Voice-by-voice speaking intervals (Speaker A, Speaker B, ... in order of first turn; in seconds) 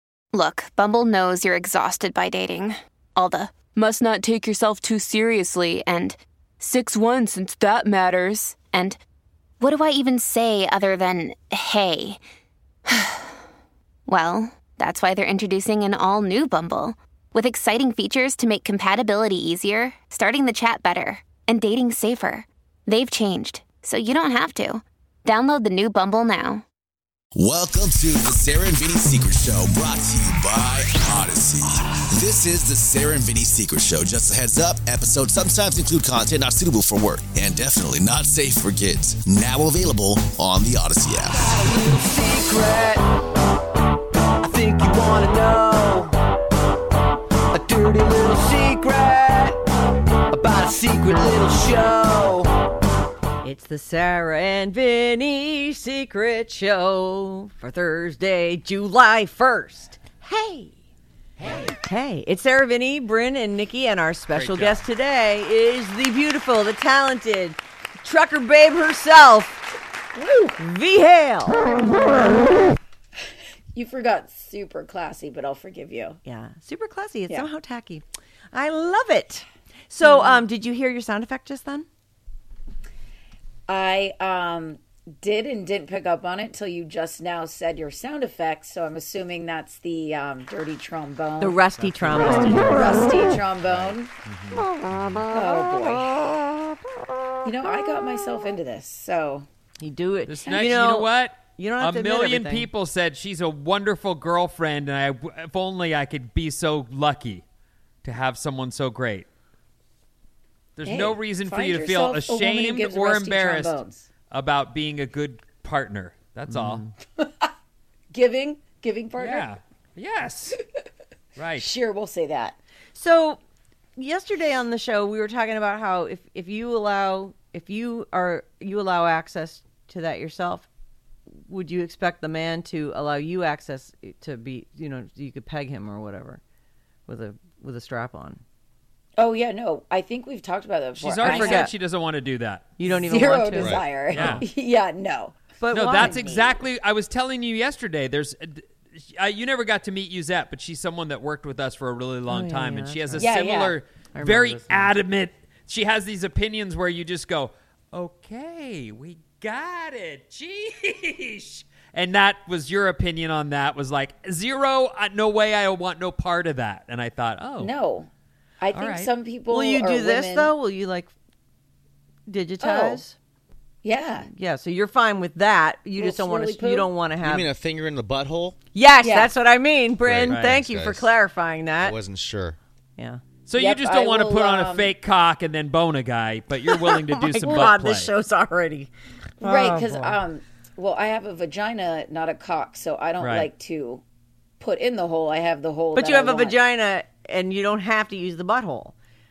Speaker A: 0.3-9.0, 9.6-12.2, 12.9-13.3, 14.1-26.6
Speaker B: 27.4-41.5
Speaker C: 41.3-43.0, 44.4-46.1, 47.5-49.6, 50.3-52.5
Speaker D: 53.4-60.8, 61.5-69.7, 70.5-71.8, 76.2-81.9, 91.4-93.1, 95.4-96.2, 99.8-102.7, 116.5-116.9, 122.9-123.4, 124.0-130.7, 131.5-136.4, 137.1-138.4, 141.2-141.7, 142.8-144.4, 145.6-146.2, 152.3-153.3, 154.1-154.9, 169.5-171.1, 172.3-173.2, 174.3-177.5, 178.7-182.0, 183.0-183.2, 186.7-188.9, 189.4-190.2, 195.9-198.9
Speaker E: 61.4-61.7, 64.3-64.8, 91.8-92.5, 93.7-95.3, 100.2-107.4, 108.0-109.3, 110.8-113.8, 114.3-116.9, 119.2-120.6, 121.4-121.7, 141.0-142.8, 144.1-144.4, 145.7-167.7, 168.7-169.1, 180.3-180.6, 183.5-188.1, 193.2-193.5
Speaker F: 73.7-76.2, 80.0-80.4, 83.7-91.6, 92.1-94.1, 95.3-96.2, 97.4-99.5, 110.9-114.0, 117.2-117.5, 118.1-119.5, 121.6-122.6, 139.2-141.7, 142.8-146.6, 153.2-153.8, 167.6-168.1, 168.6-170.5, 172.6-173.0, 173.8-174.3, 176.0-176.9, 179.0-179.3, 183.6-184.9, 189.4-194.0, 194.6-196.6
Speaker G: 143.5-143.9, 177.2-178.6, 180.0-181.2, 181.8-182.6